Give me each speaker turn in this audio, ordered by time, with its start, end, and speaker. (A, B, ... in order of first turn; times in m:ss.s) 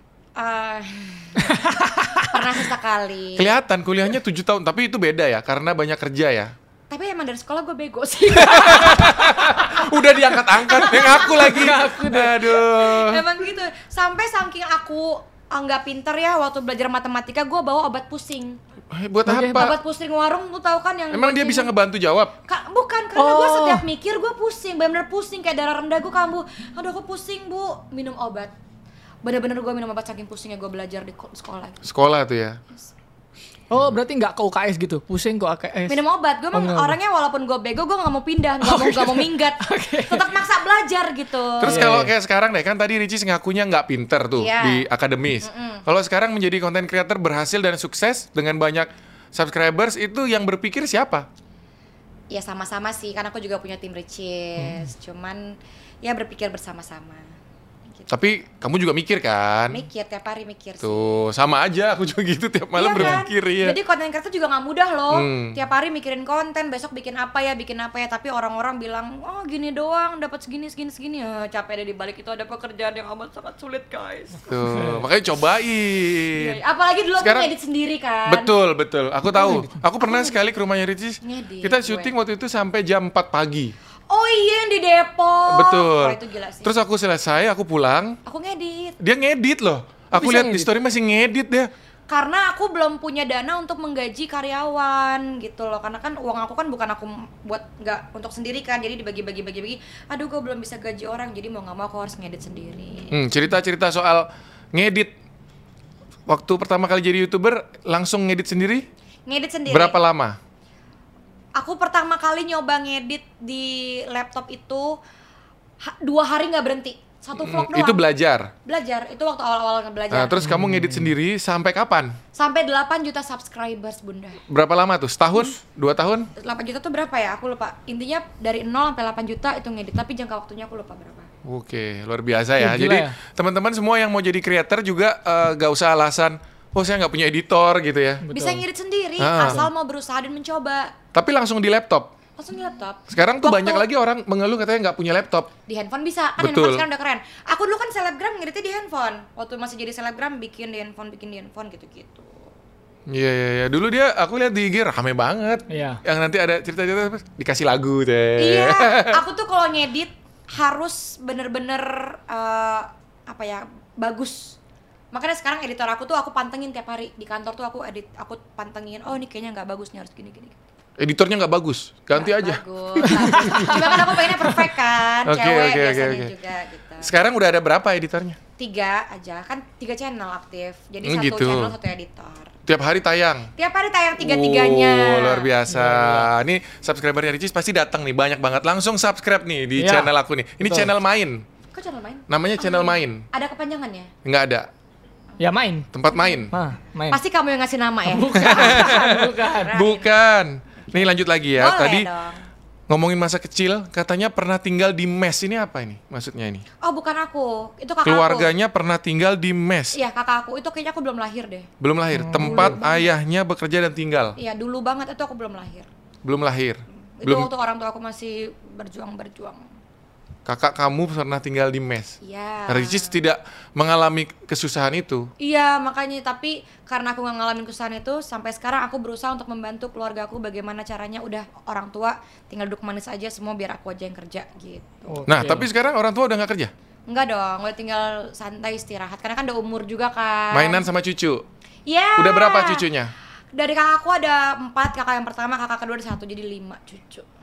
0:00.4-0:03.6 A
0:01.4-0:02.3 B
0:03.4-0:06.5 C
0:06.9-0:09.9 A
0:08.3-0:13.2 C
0:10.6-0:11.9 A
0:10.8-0:12.5 B
0:12.6-0:18.6 A
0:18.9-0:19.8 C
0:19.3-0:19.7 B
0:19.5-0:21.7 A
0:21.1-0:22.3 C
0:22.4-0:28.5 A
0:23.2-0:23.8 B
0:29.2-0:31.8 A
0:31.8-0:32.6 C
0:33.7-0:37.0 B
0:35.9-0:41.9 A
0:38.6-0:40.4 B
0:41.6-0:51.3 C
0:41.6-0:42.1 B
0:44.4-0:44.9 A
0:45.4-0:45.8 A
0:52.3-0:57.3 A
0:57.9-0:58.2 A
0:58.1-0:59.8 C
0:59.7-1:01.2 A
1:00.8-1:03.8 C
1:02.8-1:14.4 A
1:05.1-1:05.6 C
1:14.5-1:16.6 C
1:14.8-1:15.0 B
1:16.4-1:18.5 A
1:17.2-1:17.5 C
1:18.3-1:23.7 C
1:19.3-1:19.7 B
1:20.0-1:20.4 A
1:21.2-1:22.1 A
1:24.1-1:26.8 A
1:25.5-1:28.2 C
1:28.2-1:29.0 A
1:29.0-1:31.7 C
1:30.1-1:30.7 B
1:32.1-1:43.1 A
1:43.1-1:45.1 C
1:46.3-1:48.9 C
1:49.3-1:50.0 A
1:49.7-1:50.4 C
1:51.6-1:55.0 A
1:55.8-1:58.0 A
1:57.4-1:58.5 C
1:58.6-2:00.4 A
2:00.1-2:02.2 C
2:00.4-2:01.1 B
2:02.4-2:04.4 A
2:04.5-2:06.3 C
2:06.4-2:11.3 A
2:11.4-2:18.2 C
2:12.6-2:13.2 B
2:18.2-2:18.6 B
2:18.3-2:20.9 A
2:19.2-2:19.7 C
2:21.1-2:22.1 C
2:22.4-2:23.8 A
2:23.1-2:25.5 C
2:25.7-2:32.4 A
2:26.4-2:26.8 C
2:33.1-2:39.2 C
2:35.7-2:36.0 B
2:38.4-2:44.6 A
2:45.1-2:50.6 A
2:51.0-2:54.3 C
2:52.1-2:57.1 A
2:53.4-2:53.7 B
2:55.3-2:56.3 C
2:57.0-2:58.4 C
2:58.6-3:02.5 A
3:01.0-3:01.7 C
3:02.7-3:03.5 C
3:03.6-3:05.5 A
3:04.2-3:11.4 C
3:05.7-3:06.3 B
3:09.8-3:10.1 B
3:10.6-3:10.9 B
3:11.7-3:14.1 A
3:12.3-3:13.3 C
3:14.2-3:14.7 C
3:15.4-3:15.9 B
3:15.9-3:16.5 C
3:16.5-3:17.2 B
3:17.1-3:20.1 A
3:18.1-3:19.7 B
3:18.4-3:22.1 C
3:20.8-3:22.4 A
3:22.9-3:26.6 C
3:26.8-3:28.5 A
3:28.0-3:30.0 C
3:29.9-3:31.7 A
3:31.8-3:34.4 C
3:32.1-3:32.8 B
3:32.4-3:33.1 A
3:34.4-3:35.9 A
3:36.2-3:37.5 C
3:37.2-3:39.6 A
3:40.4-3:45.3 C
3:42.2-3:43.2 A
3:45.4-3:55.2 A
3:55.1-3:55.7 B
3:55.3-3:56.7 C
3:57.1-4:00.8 A
4:00.5-4:01.4 C
4:01.9-4:02.9 A
4:02.2-4:03.1 C
4:03.5-4:07.3 A